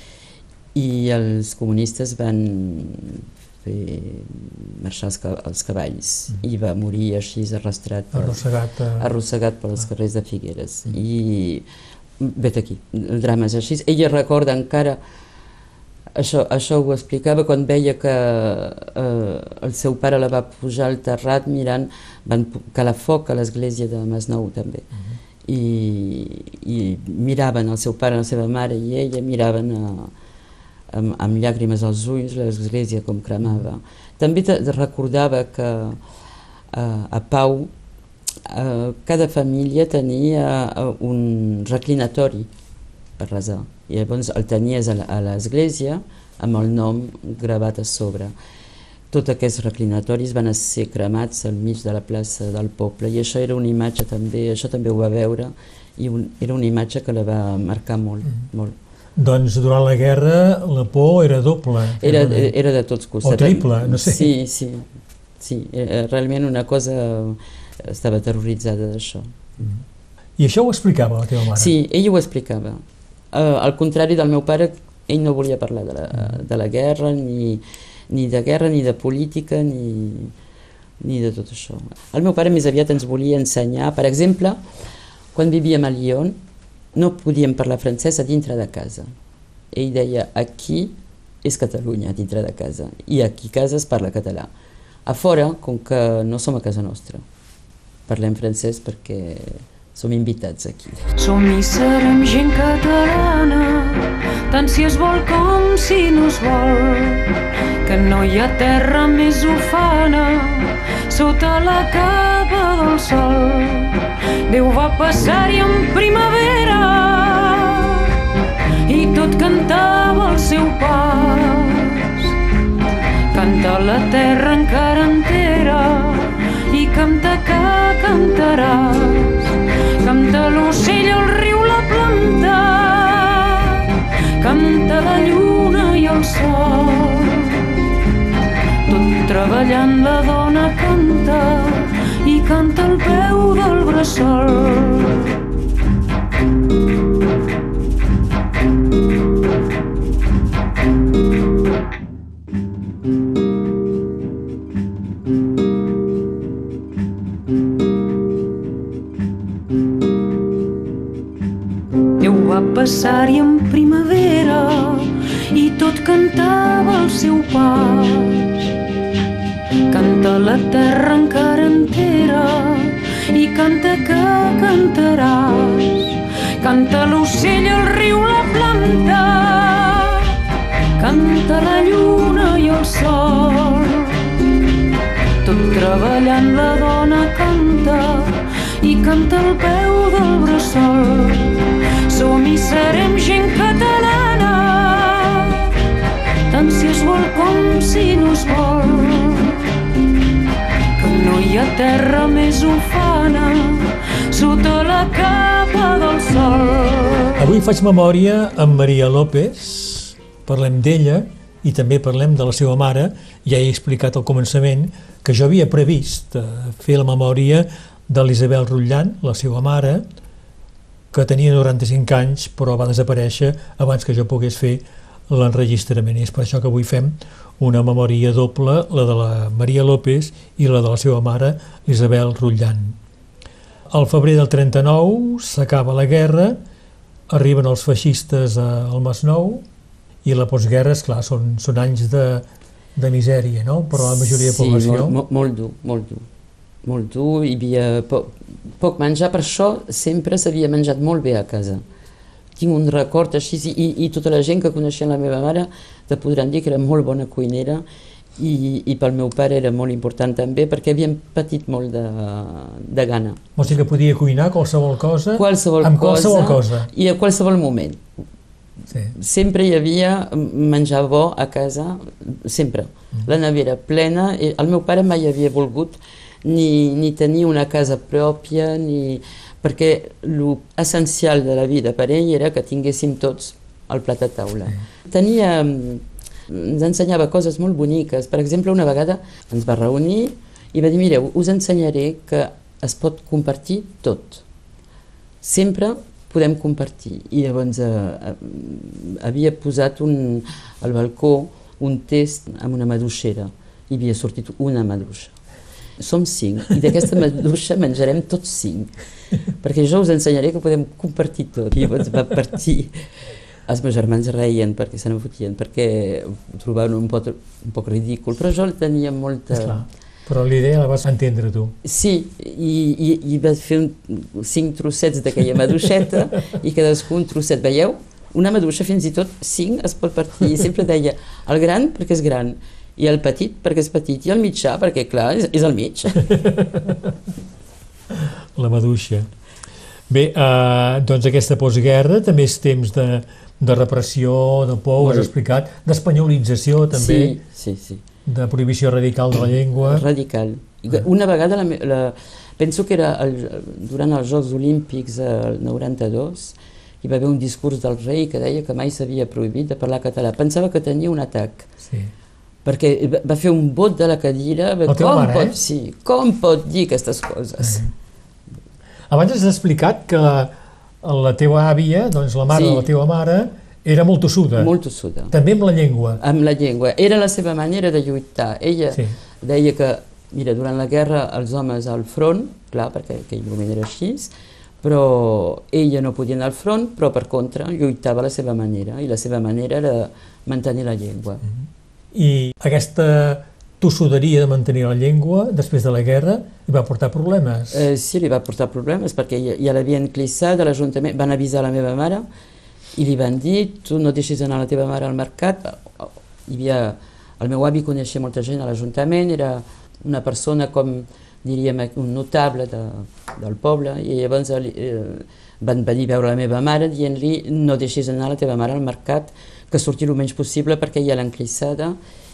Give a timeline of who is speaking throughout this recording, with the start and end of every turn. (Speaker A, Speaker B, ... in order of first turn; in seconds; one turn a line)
Speaker A: 0.7-8.4
Speaker B: 8.1-9.1
Speaker A: 9.0-11.7
Speaker A: 12.2-15.0
Speaker A: 16.1-24.9
Speaker A: 25.4-30.1
Speaker A: 30.9-36.0
Speaker A: 36.7-37.7
Speaker A: 38.4-42.5
Speaker A: 43.2-48.3
Speaker A: 49.1-58.8
Speaker B: 59.1-62.5
Speaker A: 62.0-64.9
Speaker B: 63.2-64.3
Speaker A: 65.4-69.5
Speaker B: 70.4-71.7
Speaker A: 71.5-80.3
Speaker A: 81.0-84.6
Speaker A: 85.3-86.4
Speaker A: 86.9-89.1
Speaker A: 89.7-94.5
Speaker A: 95.0-97.2
Speaker A: 98.1-101.1
Speaker C: 101.2-107.3
Speaker C: 107.8-118.1
Speaker C: 118.8-122.3
Speaker C: 123.3-137.8
Speaker C: 138.9-145.3
Speaker C: 162.2-168.7
Speaker C: 169.9-180.3
Speaker C: 181.0-184.4
Speaker C: 185.4-195.7
Speaker C: 196.5-199.7
Speaker C: 201.0-207.4
Speaker B: 207.4-220.1
Speaker B: 221.1-233.0
Speaker B: 233.9-236.6
Speaker B: 237.3-239.6
Speaker B: 240.2-245.1
Speaker A: 244.1-246.2
Speaker A: 246.8-251.8
Speaker A: 252.6-257.8
Speaker A: 258.4-263.5
Speaker B: 263.6-266.9
Speaker A: 265.4-268.0
Speaker A: 269.1-294.4
Speaker A: 295.4-305.3
Speaker A: 306.0-308.9
Speaker A: 309.5-313.1
Speaker A: 313.7-319.8
Speaker B: 319.5-321.8
Speaker A: 321.8-336.4
Speaker B: 336.3-337.1
Speaker B: 338.1-339.3
Speaker B: 340.1-347.4
Speaker A: 345.0-345.3
Speaker A: 346.9-348.0
Speaker B: 348.2-350.1
Speaker A: 349.8-361.7
Speaker B: 361.9-362.1
Speaker A: 362.6-367.8
Speaker B: 364.9-365.6
Speaker B: 367.6-367.9
Speaker B: 369.1-374.7
Speaker A: 372.5-372.9
Speaker A: 374.6-375.3
Speaker B: 375.3-376.2
Speaker A: 376.2-384.3
Speaker A: 384.8-391.4
Speaker B: 392.1-397.8
Speaker A: 397.7-402.2
Speaker A: 402.9-422.0